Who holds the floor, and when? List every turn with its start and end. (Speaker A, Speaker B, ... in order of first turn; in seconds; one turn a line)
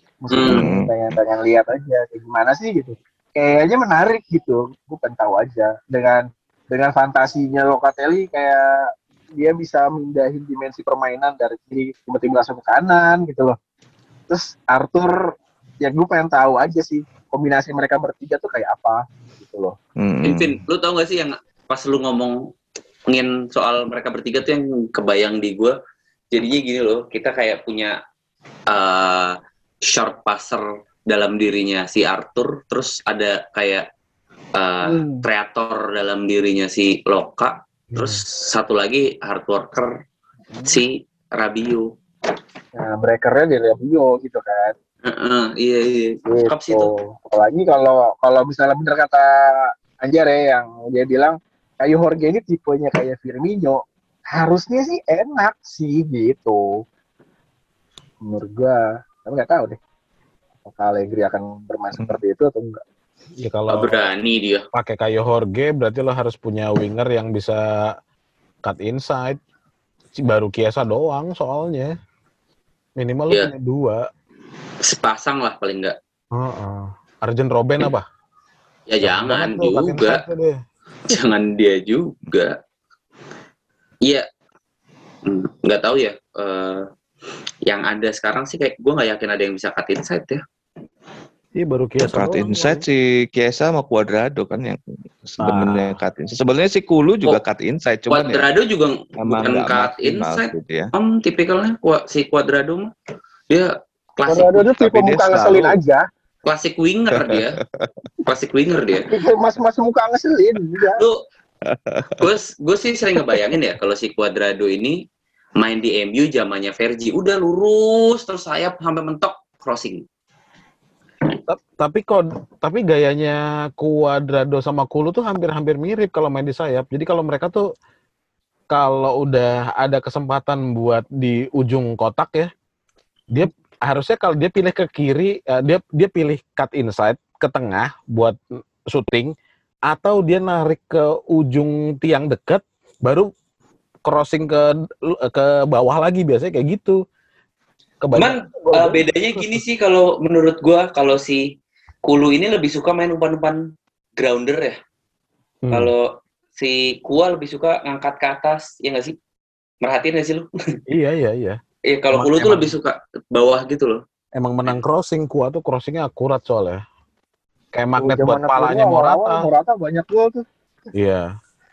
Speaker A: 0.2-13.6
Speaker B: 0.3-0.7
Speaker C: 0.4-1.0
Speaker A: 14.3-19.8
Speaker C: 20.0-20.6
Speaker B: 20.2-22.5
Speaker B: 23.1-25.7
Speaker B: 26.3-28.0
Speaker B: 28.7-33.9
Speaker B: 34.5-39.9
Speaker A: 34.8-35.2
Speaker D: 37.9-38.2
Speaker B: 40.6-41.9
Speaker A: 42.8-44.7
Speaker B: 45.1-46.9
Speaker A: 46.2-56.6
Speaker A: 58.2-59.8
Speaker A: 60.6-62.8
Speaker D: 63.4-64.0
Speaker B: 63.7-64.6
Speaker D: 64.7-67.9
Speaker D: 68.6-69.4
Speaker D: 70.2-71.9
Speaker D: 73.0-74.1
Speaker B: 74.8-76.0
Speaker D: 76.3-78.0
Speaker B: 78.9-80.2
Speaker D: 79.0-80.6
Speaker B: 81.1-82.6
Speaker B: 85.2-86.9
Speaker B: 87.7-90.4
Speaker D: 91.6-92.8
Speaker C: 92.0-98.5
Speaker D: 95.4-96.0
Speaker B: 98.1-102.9
Speaker C: 99.2-100.9
Speaker B: 103.5-104.7
Speaker A: 104.3-106.0
Speaker C: 104.8-105.8
Speaker B: 106.5-107.6
Speaker C: 107.2-108.0
Speaker B: 108.2-109.1
Speaker A: 109.1-111.0
Speaker C: 111.7-112.3
Speaker B: 112.2-115.0
Speaker B: 115.6-120.0
Speaker D: 121.5-127.7
Speaker D: 128.7-132.5
Speaker D: 133.3-139.3
Speaker D: 139.9-143.3
Speaker D: 144.1-147.0
Speaker D: 148.0-149.6
Speaker B: 148.1-151.5
Speaker B: 152.0-154.8
Speaker D: 155.6-155.9
Speaker B: 155.7-159.2
Speaker B: 159.8-160.5
Speaker D: 160.9-161.6
Speaker B: 161.9-164.0
Speaker D: 162.1-162.7
Speaker D: 164.3-166.8
Speaker D: 167.7-169.5
Speaker A: 168.0-170.4
Speaker D: 170.9-171.3